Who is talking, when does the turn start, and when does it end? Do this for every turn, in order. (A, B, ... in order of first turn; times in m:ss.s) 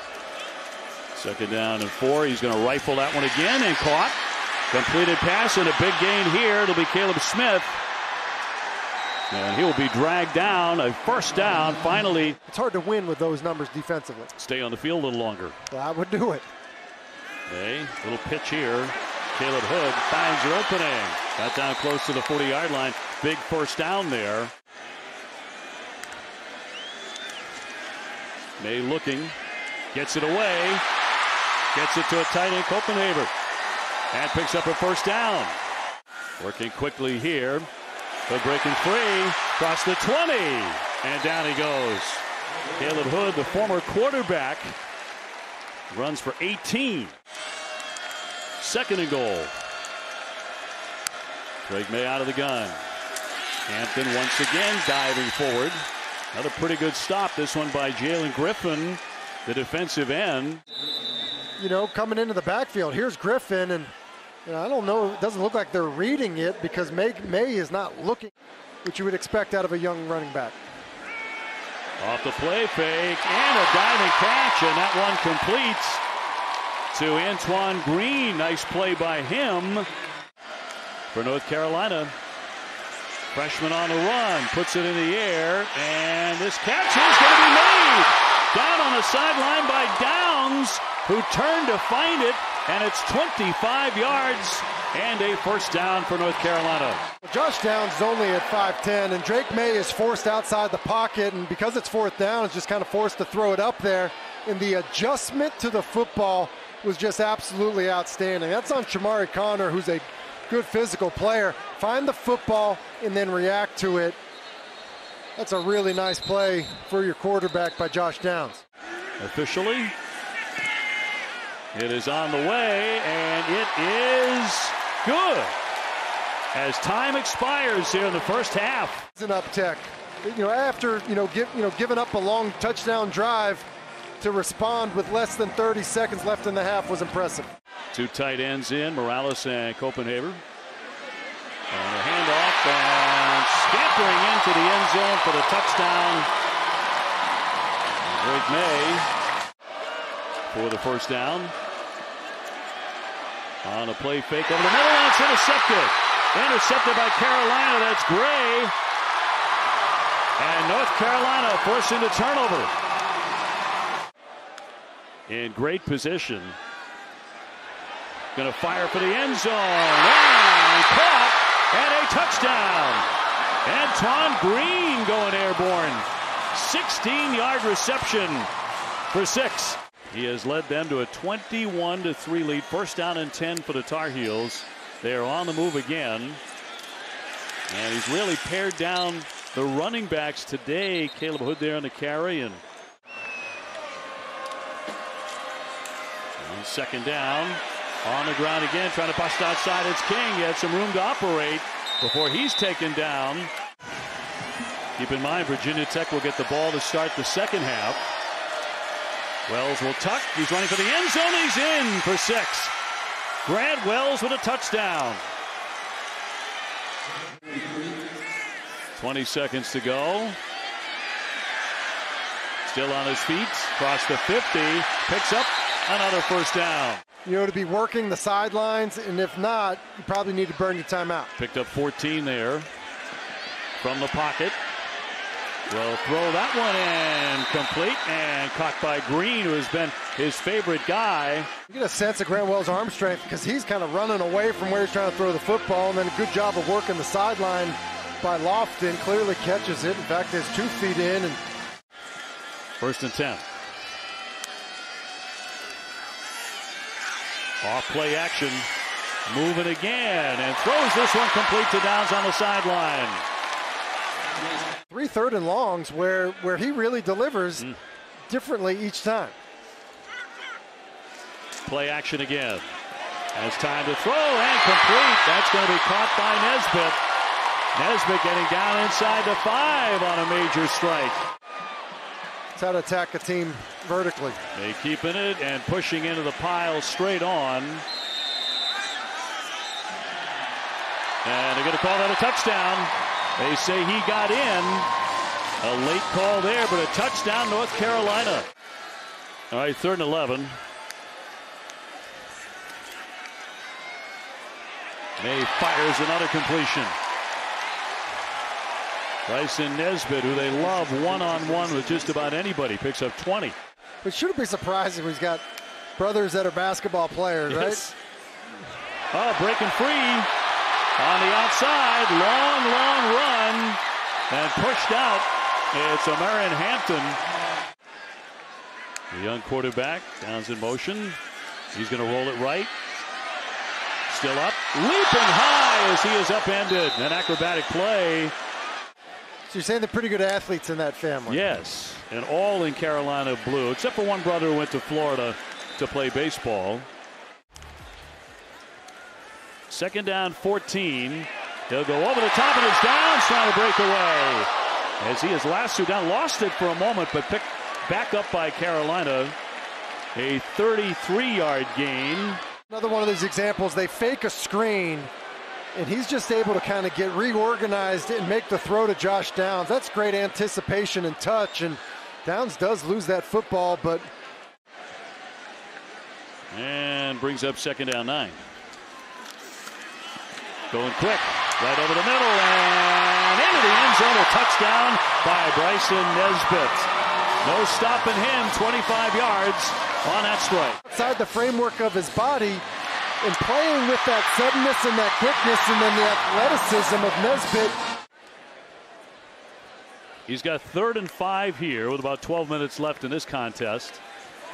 0:01.1-0:04.2 A
0:04.7-0:07.8 A
0:09.3-0:12.4 A
0:12.5-0:14.3 B
0:14.4-0:15.6 A
0:15.7-0:16.5 B
0:17.5-0:24.5 A
0:28.6-0:29.3 A
0:29.9-0:30.8 A
0:31.7-0:33.3 A
0:34.1-0:35.6 A
0:36.4-0:37.7 A
0:38.3-0:42.2 A
0:42.8-0:44.8 A
0:45.9-0:47.1 A
0:48.6-0:49.5 A
0:51.6-0:52.8 A
0:53.7-0:55.8 A
0:56.3-1:00.6 A
1:01.6-1:03.9 B
1:04.4-1:08.3 B
1:08.8-1:10.6 B
1:12.0-1:16.0 A
1:16.9-1:19.9 A
1:21.1-1:22.1 A
1:23.3-1:37.0 A
1:37.2-1:54.2 B
1:55.4-1:58.6 B
1:59.2-1:59.9 A
2:01.7-2:05.6 A
2:06.5-2:09.0 A
2:09.1-2:13.6 B
2:14.2-2:17.5 B
2:17.9-2:20.4 A
2:21.7-2:26.3 A
2:28.0-2:29.1 A
2:30.5-2:31.5 A
2:33.6-2:38.7 A
2:40.4-2:42.7 A
2:45.3-2:46.6 A
2:48.3-2:53.1 A
2:53.6-2:58.5 A
2:59.1-3:06.4 A
3:07.7-3:12.6 A
3:16.4-3:23.5 A
3:25.0-3:28.0 A
3:29.5-3:32.7 A
3:33.4-3:35.2 A
3:38.9-3:40.4 A
3:42.6-3:47.0 A
3:47.2-3:51.3 B
3:51.4-3:52.7 A
3:53.8-3:54.6 A
3:55.7-4:01.5 A
4:01.7-4:11.4 B
4:12.8-4:13.4 A
4:17.6-4:18.7 A
4:19.3-4:23.2 A
4:24.9-4:27.7 B
4:28.3-4:29.3 B
4:31.6-4:32.7 A
4:33.3-4:37.0 A
4:37.7-4:41.2 A
4:42.5-4:44.4 B
4:44.5-4:47.8 A
4:51.2-4:54.9 A
4:55.6-4:58.5 A
4:59.5-5:00.6 A
5:05.2-5:06.9 A
5:09.2-5:13.6 A
5:14.0-5:15.4 B
5:16.0-5:17.8 B
5:17.5-5:17.9 A
5:19.1-5:20.3 A
5:21.0-5:27.2 A
5:29.1-5:31.2 A
5:31.7-5:32.7 A
5:34.1-5:38.3 A
5:39.5-5:41.5 B
5:41.3-5:46.9 A
5:49.7-5:54.5 A
5:55.0-5:59.4 A
6:00.1-6:02.4 A
6:02.7-6:05.1 B
6:05.7-6:14.1 B
6:16.5-6:18.4 A
6:20.7-6:26.9 A
6:27.4-6:30.8 A
6:30.8-6:32.6 B
6:33.2-6:37.8 B
6:40.3-6:44.0 A